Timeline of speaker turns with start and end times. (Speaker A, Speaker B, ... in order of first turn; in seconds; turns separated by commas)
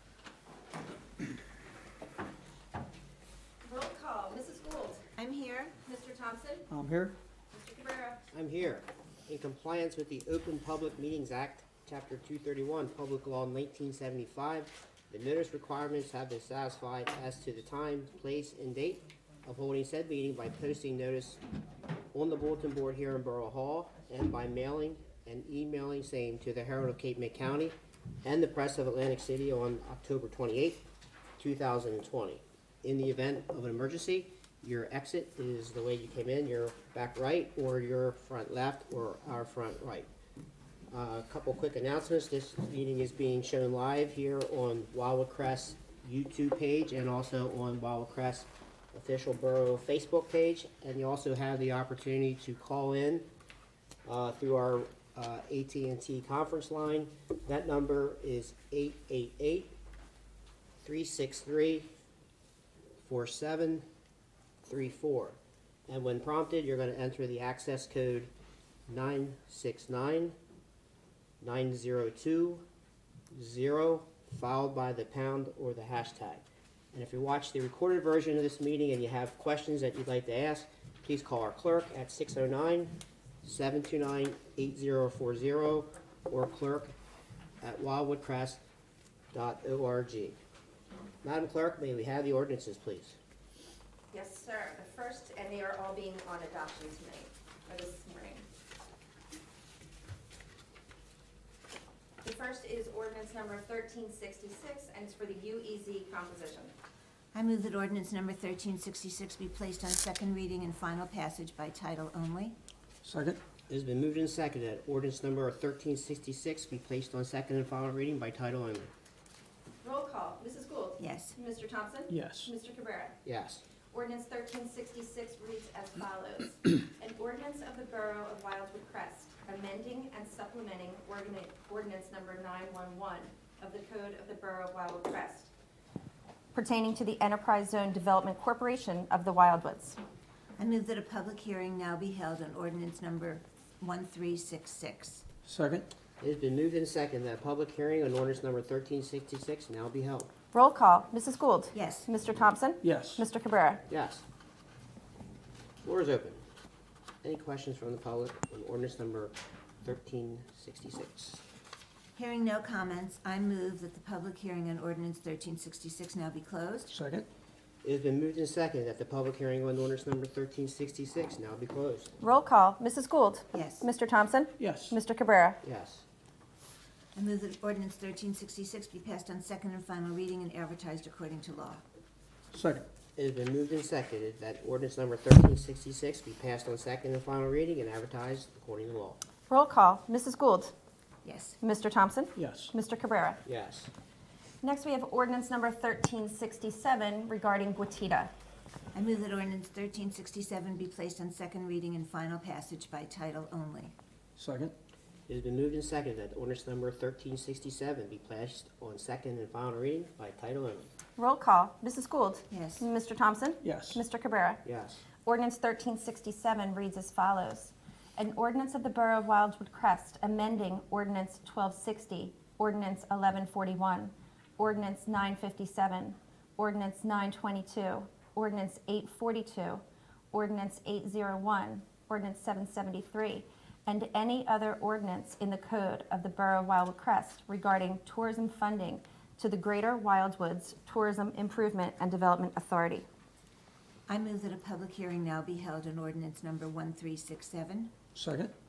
Speaker A: 3.6-5.0, Speaker B: 5.2-5.8, Speaker A: 5.8-6.7, Speaker C: 6.7-7.2, Speaker A: 7.5-8.2, Speaker D: 8.3-21.4, Speaker D: 22.1-30.9, Speaker D: 31.4-40.1, Speaker D: 40.9-53.3, Speaker D: 54.0-59.8, Speaker D: 60.8-61.9, Speaker D: 63.0-63.9, Speaker D: 64.6-68.3, Speaker D: 68.9-70.3, Speaker D: 71.4-72.6, Speaker D: 73.3-86.9, Speaker D: 87.6-88.6, Speaker D: 89.3-90.4, Speaker D: 91.2-93.2, Speaker A: 94.1-98.5, Speaker A: 102.2-106.7, Speaker B: 107.3-112.5, Speaker C: 113.0-113.4, Speaker D: 113.7-118.9, Speaker A: 119.8-123.2, Speaker B: 121.0-121.4, Speaker C: 122.1-122.5, Speaker D: 123.2-123.6, Speaker A: 123.9-135.5, Speaker A: 136.5-140.0, Speaker B: 140.6-145.2, Speaker C: 145.5-145.9, Speaker D: 146.2-150.3, Speaker A: 150.5-153.8, Speaker B: 151.7-152.1, Speaker C: 152.8-153.3, Speaker D: 153.9-154.2, Speaker D: 155.8-156.4, Speaker D: 157.2-161.4, Speaker B: 162.2-166.9, Speaker C: 166.9-167.3, Speaker D: 167.8-172.2, Speaker A: 172.2-175.6, Speaker B: 173.5-173.9, Speaker C: 174.6-175.0, Speaker D: 175.6-176.0, Speaker B: 177.2-181.8, Speaker C: 182.5-182.9, Speaker D: 183.2-189.2, Speaker A: 189.5-190.7, Speaker B: 191.2-191.6, Speaker A: 191.6-193.4, Speaker C: 192.4-192.7, Speaker D: 193.4-193.9, Speaker A: 194.6-198.3, Speaker B: 198.9-203.9, Speaker C: 204.4-204.7, Speaker D: 205.3-210.9, Speaker A: 211.2-214.6, Speaker B: 212.5-212.9, Speaker C: 213.6-214.0, Speaker D: 214.6-215.0, Speaker A: 215.2-243.1, Speaker B: 244.1-247.9, Speaker C: 248.2-248.5